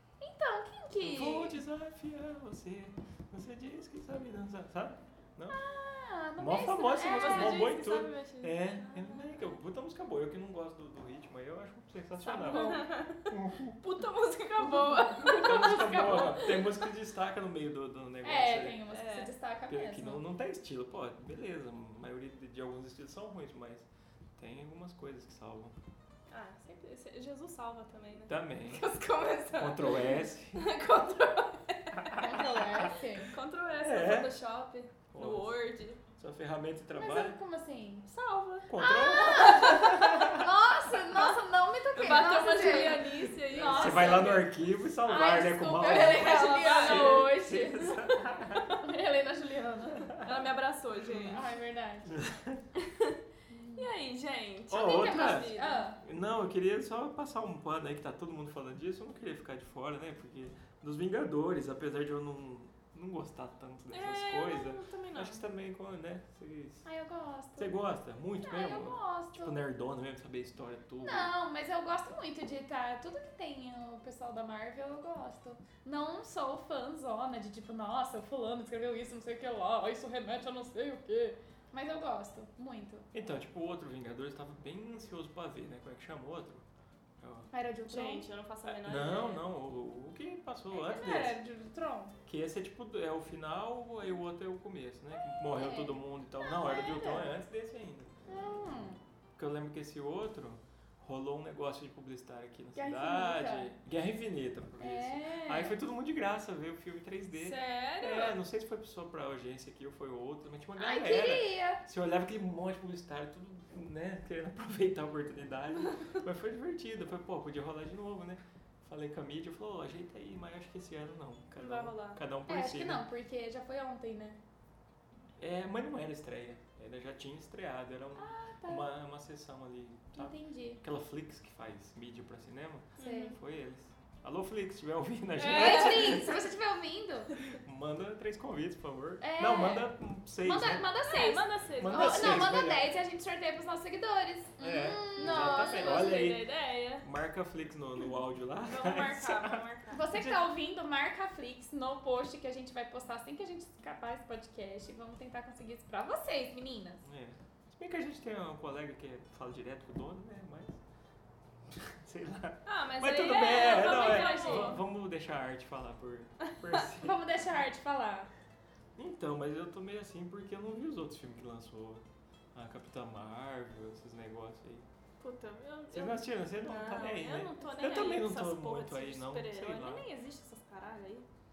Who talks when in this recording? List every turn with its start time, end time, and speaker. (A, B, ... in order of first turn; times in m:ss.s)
0:00.2-0:01.6 A
0:01.0-0:05.6 B
0:05.5-0:07.8 A
0:06.4-0:13.8 B
0:07.0-0:09.5 C
0:12.2-0:13.0 A
0:12.4-0:13.2 C
0:13.8-0:16.0 C
0:14.6-0:16.6 A
0:15.3-0:18.8 B
0:18.2-0:20.2 A
0:18.9-0:19.3 C
0:19.7-0:25.7 B
0:26.3-0:32.3 C
0:28.3-0:28.8 B
0:29.6-0:30.6 B
0:32.0-0:32.5 B
0:32.2-0:33.3 A
0:33.2-0:36.0 C
0:33.7-0:34.3 B
0:35.1-0:35.6 B
0:36.1-0:37.4 B
0:37.0-0:38.1 A
0:38.1-0:40.0 C
0:38.7-0:40.5 B
0:38.8-0:44.4 A
0:41.1-0:41.4 C
0:41.9-0:44.5 C
0:43.1-0:48.8 B
0:45.0-0:50.1 A
0:45.8-0:47.3 C
0:50.0-0:50.3 B
0:50.2-0:51.4 C
0:51.1-0:52.1 A
0:52.1-0:52.6 B
0:52.7-0:53.2 C
0:53.5-0:53.9 A
0:53.8-0:55.9 C
0:54.7-1:06.8 B
0:54.8-0:56.0 A
1:03.9-1:05.4 C
1:06.8-1:07.8 A
1:07.6-1:11.3 B
1:08.4-1:09.6 A
1:11.0-1:23.1 A
1:23.1-1:26.6 B
1:27.2-1:27.5 B
1:27.5-1:28.3 A
1:27.9-1:29.4 C
1:28.6-1:31.4 B
1:30.7-1:32.1 A
1:32.2-1:38.1 B
1:35.4-1:36.0 A
1:36.4-1:37.3 C
1:38.3-1:39.0 A
1:39.4-2:03.0 B
1:42.7-1:43.7 A
1:44.8-1:45.8 A
1:47.3-1:48.4 C
1:50.8-1:51.8 A
2:01.6-2:02.2 C
2:02.5-2:04.4 A
2:05.4-2:16.4 B
2:08.2-2:08.9 A
2:10.2-2:10.8 A
2:13.0-2:13.4 C
2:13.0-2:13.4 A
2:15.4-2:17.4 A
2:15.4-2:16.1 C
2:17.5-2:20.8 B
2:19.2-2:26.2 A
2:21.0-2:22.5 C
2:21.8-2:22.9 B
2:24.6-2:26.4 B
2:25.2-2:27.0 C
2:27.0-2:29.6 B
2:28.6-2:30.0 C
2:29.9-2:37.0 A
2:30.1-2:30.4 B
2:37.0-2:40.8 B
2:41.9-2:47.2 B
2:42.6-2:44.8 C
2:43.6-2:44.8 A
2:47.0-2:48.3 A
2:49.0-2:54.8 B
2:55.2-3:01.2 C
2:55.9-3:00.0 B